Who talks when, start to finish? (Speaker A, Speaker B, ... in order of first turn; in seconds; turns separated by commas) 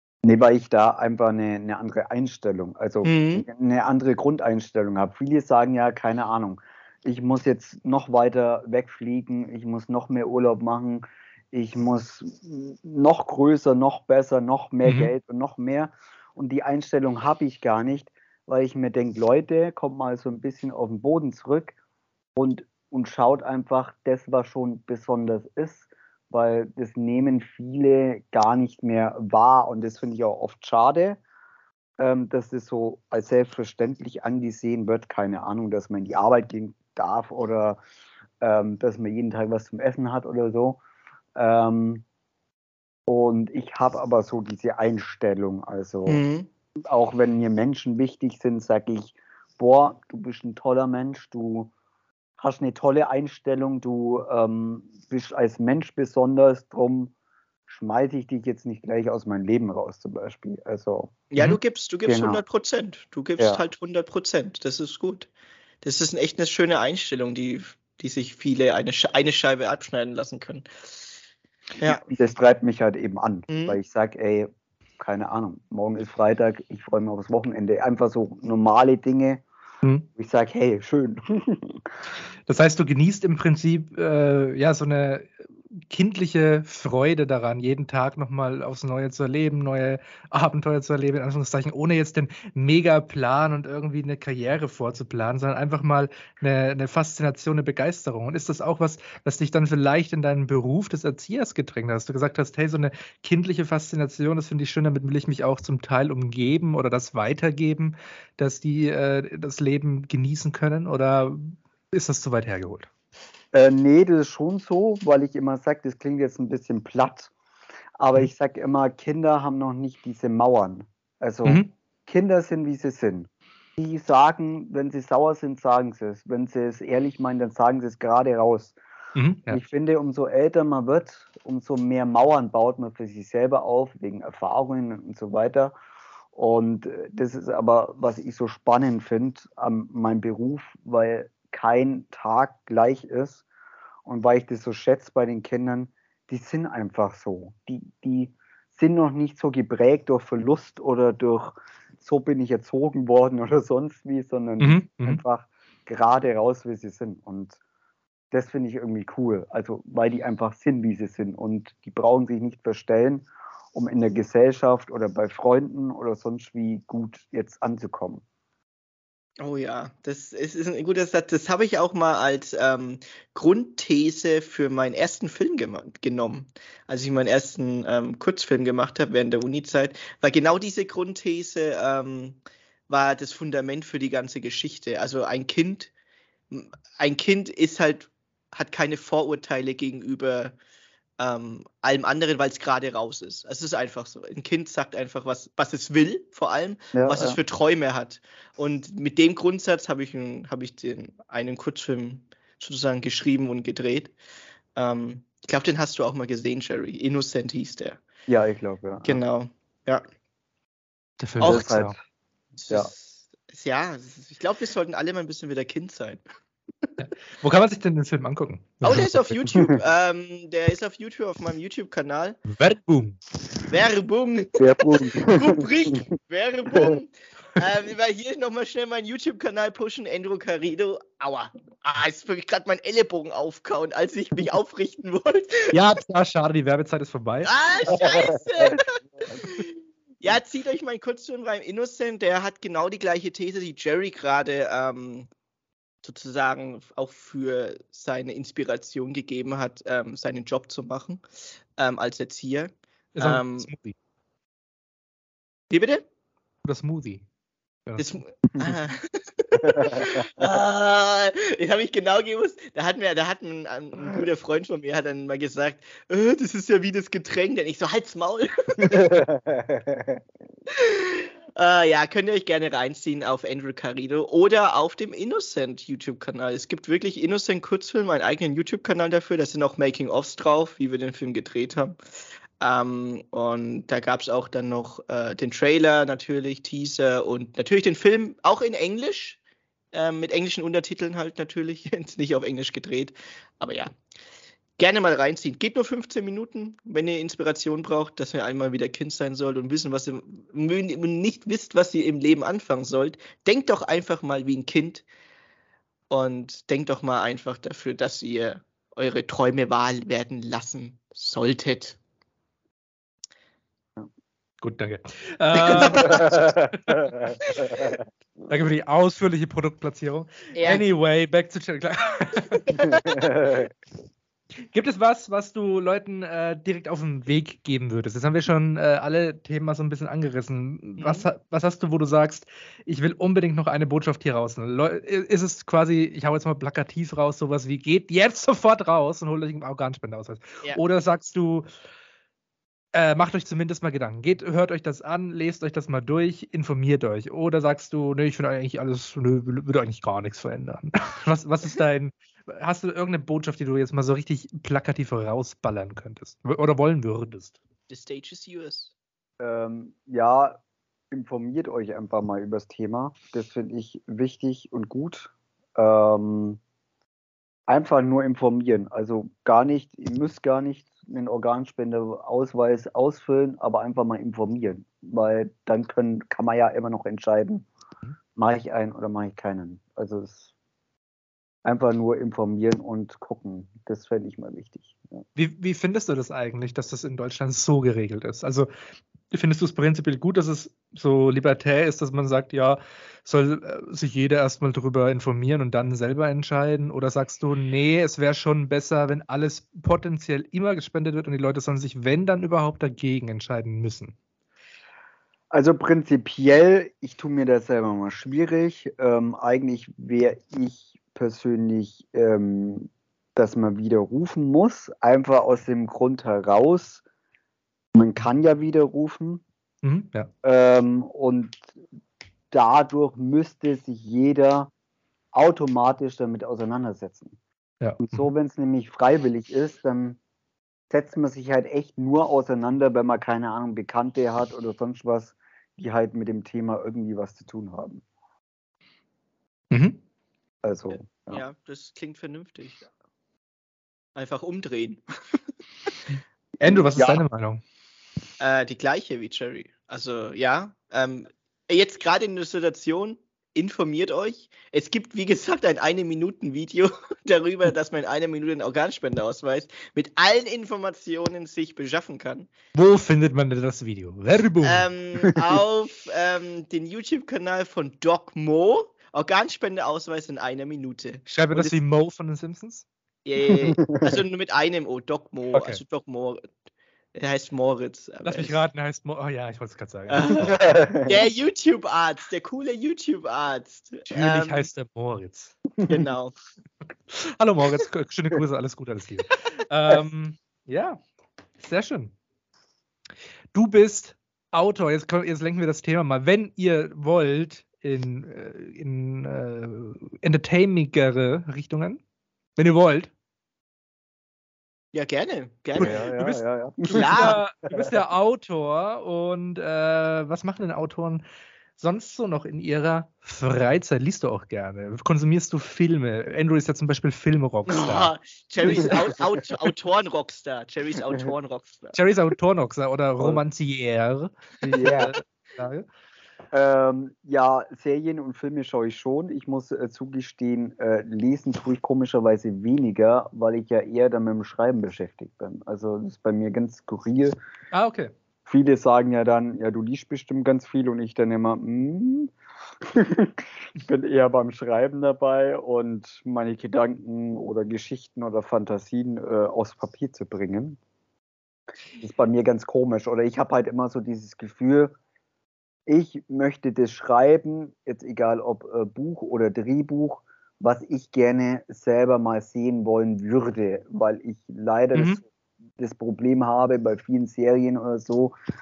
Speaker A: 0.2-21.8, Speaker B: 3.0-3.5, Speaker C: 14.8-15.1, Speaker A: 22.4-31.2, Speaker A: 32.0-37.8, Speaker A: 38.4-40.8, Speaker A: 41.3-42.0, Speaker A: 43.1-46.2, Speaker B: 46.1-46.5, Speaker A: 46.8-51.7, Speaker A: 52.4-57.1, Speaker A: 57.7-61.2, Speaker B: 61.3-65.3, Speaker A: 62.0-62.4, Speaker B: 65.8-70.7, Speaker B: 71.8-72.0, Speaker A: 71.8-74.5, Speaker B: 73.5-73.8, Speaker A: 75.0-79.4, Speaker A: 80.2-81.8, Speaker C: 82.5-112.9, Speaker A: 113.5-117.3, Speaker A: 118.0-128.8, Speaker C: 129.1-129.6, Speaker A: 129.5-135.7, Speaker A: 136.3-143.4, Speaker A: 144.0-157.6, Speaker C: 154.6-155.2, Speaker A: 158.3-168.2, Speaker B: 169.4-185.9, Speaker B: 186.5-190.5, Speaker B: 191.2-204.1, Speaker A: 196.9-197.4, Speaker B: 204.8-208.0, Speaker A: 208.3-209.2, Speaker B: 209.0-210.0, Speaker C: 211.2-211.9, Speaker A: 211.4-212.0, Speaker B: 211.4-211.8, Speaker B: 212.6-216.2, Speaker C: 217.0-219.3, Speaker B: 218.8-222.4, Speaker A: 219.5-219.8, Speaker C: 222.5-223.2, Speaker B: 223.7-235.8, Speaker A: 224.5-225.9, Speaker A: 226.7-227.0, Speaker C: 235.7-237.5, Speaker B: 237.4-245.3, Speaker A: 237.9-239.5, Speaker B: 246.0-251.2, Speaker B: 251.8-253.7, Speaker C: 253.2-253.9, Speaker B: 255.7-256.0, Speaker C: 256.6-257.2, Speaker B: 258.0-269.1, Speaker A: 259.6-260.3, Speaker A: 268.8-270.2, Speaker B: 270.7-282.0, Speaker B: 282.6-289.4, Speaker B: 289.9-293.9, Speaker B: 294.8-305.1, Speaker B: 306.1-312.0, Speaker C: 314.6-317.3, Speaker B: 315.6-316.2, Speaker A: 316.0-317.9, Speaker C: 318.5-322.7, Speaker B: 320.6-320.8, Speaker B: 322.7-323.2, Speaker A: 322.8-323.7, Speaker C: 324.7-341.7, Speaker B: 331.0-331.3, Speaker C: 342.9-357.6, Speaker B: 357.9-358.9, Speaker A: 359.4-366.6, Speaker A: 367.7-377.7, Speaker A: 378.3-380.5, Speaker A: 381.6-385.2, Speaker C: 385.4-388.7, Speaker C: 389.3-404.1, Speaker A: 405.5-417.0, Speaker A: 417.9-419.4, Speaker C: 419.8-420.3, Speaker A: 420.4-421.8, Speaker A: 422.5-424.7, Speaker A: 425.3-427.4, Speaker C: 427.8-428.3, Speaker A: 428.0-430.2, Speaker A: 430.9-438.0, Speaker C: 439.7-440.0, Speaker A: 440.6-441.4, Speaker B: 441.1-442.9, Speaker B: 444.1-445.0, Speaker A: 446.6-447.2, Speaker C: 446.6-447.6, Speaker B: 448.4-462.5, Speaker C: 462.7-464.9, Speaker B: 464.6-471.8, Speaker C: 471.3-472.9, Speaker B: 473.2-476.4, Speaker A: 473.5-474.1, Speaker C: 475.5-475.8, Speaker B: 477.1-478.6, Speaker C: 478.2-480.7, Speaker B: 480.1-484.7, Speaker A: 480.4-481.2, Speaker C: 484.1-485.6, Speaker A: 485.8-486.1, Speaker B: 485.9-486.3, Speaker C: 487.1-491.0, Speaker C: 491.6-492.1, Speaker C: 493.5-502.0, Speaker C: 502.6-503.1, Speaker B: 504.9-506.0, Speaker A: 505.8-507.9, Speaker C: 505.8-511.2, Speaker B: 506.9-507.4, Speaker C: 511.8-519.0, Speaker B: 517.7-522.0, Speaker A: 518.6-519.4, Speaker C: 521.9-525.9, Speaker A: 524.7-525.1, Speaker A: 526.5-537.4, Speaker C: 537.7-538.1, Speaker A: 538.5-550.8, Speaker A: 552.0-554.9, Speaker A: 555.9-565.2, Speaker C: 564.9-565.2, Speaker A: 565.8-568.4